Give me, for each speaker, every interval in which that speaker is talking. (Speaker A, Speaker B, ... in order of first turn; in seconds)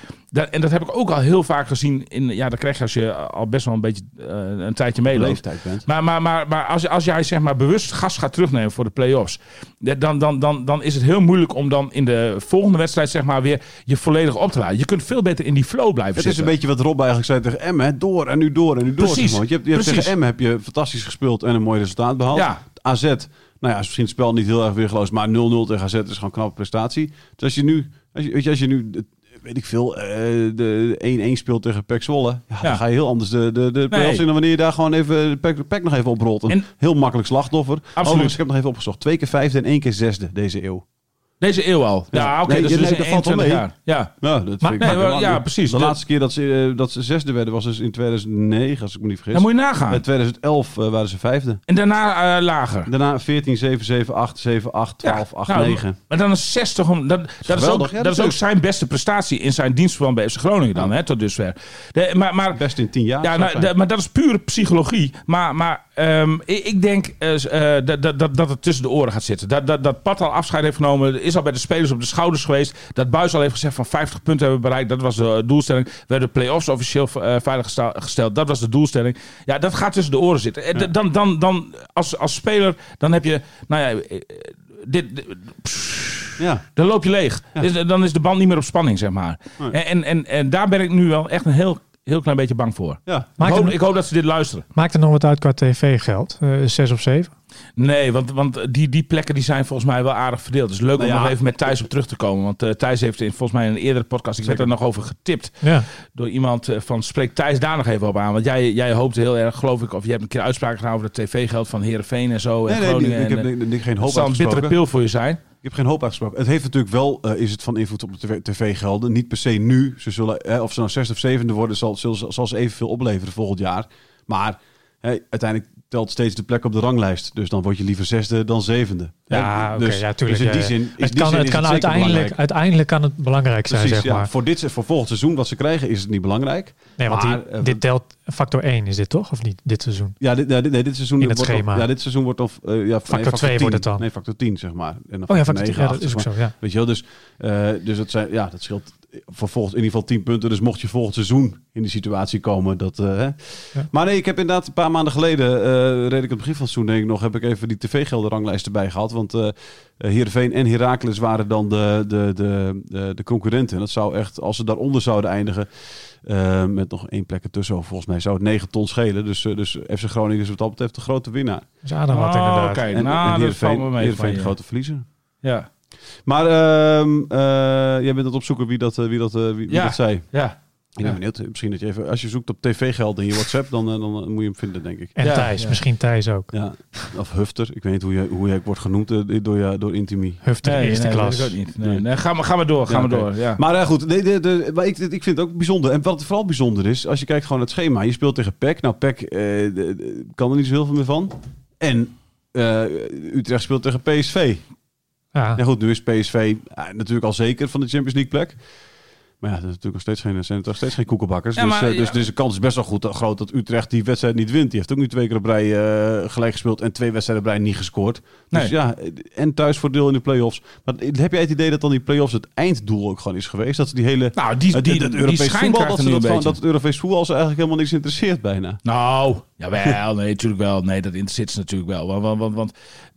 Speaker A: 0.3-16.5, 19.0-20.1, 22.3-22.6, 33.9-34.2, 38.0-38.4, 41.4-46.0, 49.3-50.0, 51.7-52.9, 55.0-62.6, 63.2-94.7, 97.8-115.4, 172.1-174.6, 175.4-175.7, 179.7-181.2, 185.2-185.8, 190.6-193.6, 211.5-212.2, 224.3-226.6, 228.8-232.7
Speaker B: 5.1-5.9, 16.1-40.8, 42.1-51.6, 52.9-56.0, 57.4-58.4, 62.5-63.7, 86.4-86.6, 93.0-93.3, 101.0-101.8, 104.4-104.7, 112.7-114.8, 115.6-132.3, 133.7-137.8, 140.2-171.8, 172.9-175.0, 176.2-180.3, 180.9-185.2, 186.5-190.9, 191.8-192.1, 192.8-204.7, 205.5-228.8
Speaker C: 93.4-93.8, 94.7-97.3, 105.6-105.9, 129.3-134.3, 137.0-140.2, 141.2-141.9, 143.1-144.0, 145.3-146.5, 171.8-172.8, 185.1-187.0, 190.4-191.6, 205.3-205.6